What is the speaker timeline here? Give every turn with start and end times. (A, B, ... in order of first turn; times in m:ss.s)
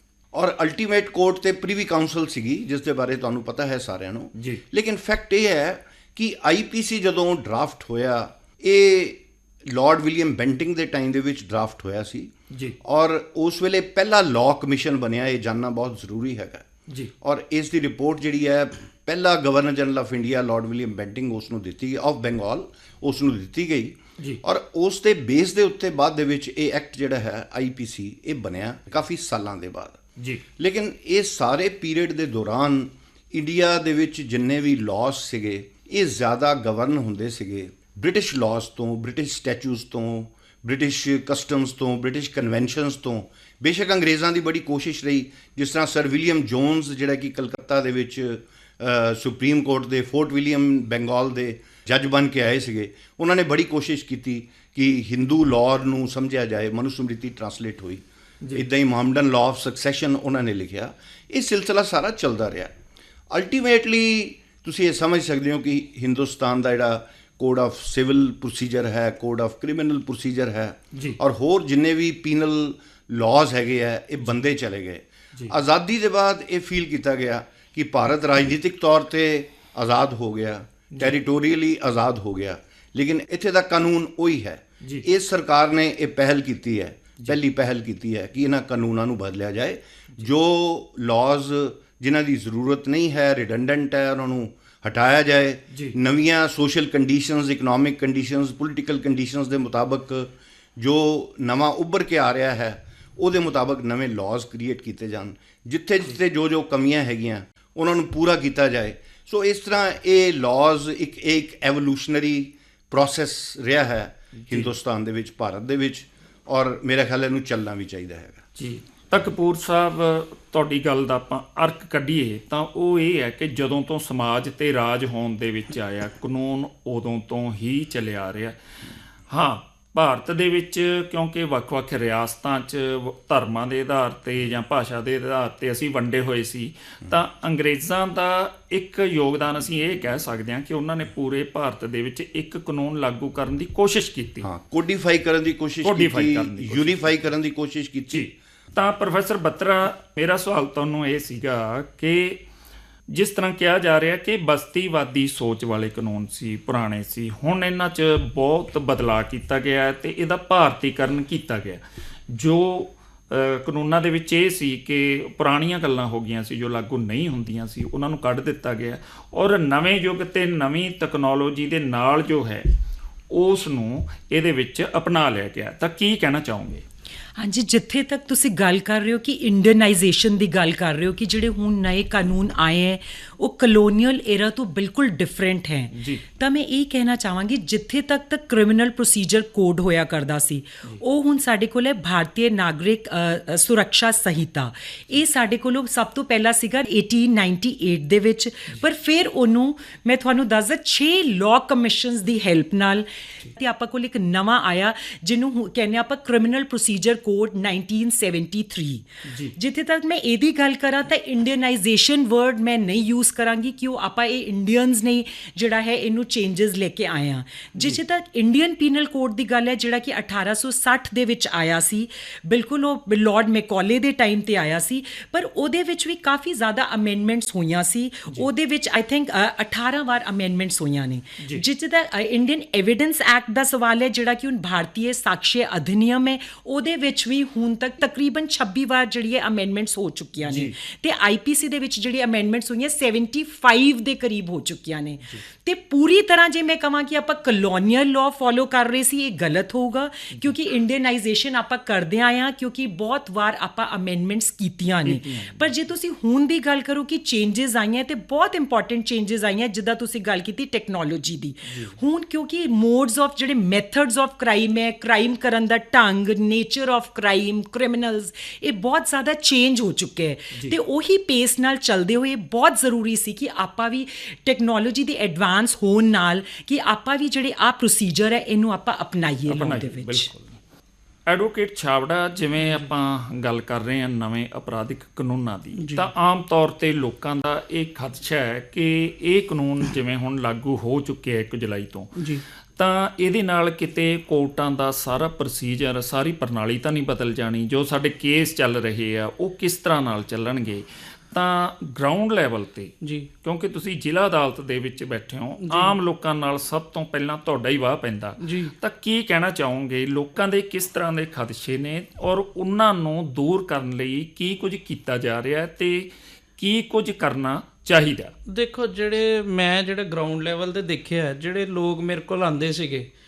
0:00.3-0:16.6 A
0:04.3-0:04.6 B
0:12.5-0:12.8 B
0:17.2-0:30.0 A
0:30.2-0:30.4 B
0:30.6-1:02.7 A
1:03.3-1:58.4 A
1:10.9-1:11.2 B
1:24.8-1:25.1 B
1:35.7-1:36.0 B
1:54.4-1:54.7 B
1:58.6-2:08.6 B
2:09.3-2:24.5 B
2:24.4-2:28.3 A
2:25.8-2:27.1 B
2:28.1-2:32.4 B
2:33.1-2:52.7 B
2:53.3-2:56.8 B
2:57.4-4:40.3 C
3:05.9-3:06.2 B
3:29.2-3:29.6 B
3:51.4-3:51.6 B
4:00.4-4:00.8 B
4:15.0-4:15.7 B
4:21.7-4:22.0 B
4:39.5-4:40.6 B
4:41.3-4:52.2 B
4:42.6-4:42.9 D
4:45.8-4:46.1 D
4:52.2-4:52.4 D
4:52.8-5:18.3 B
5:03.0-5:03.3 D
5:05.6-5:05.9 D
5:08.4-5:08.7 D
5:18.5-5:23.1 D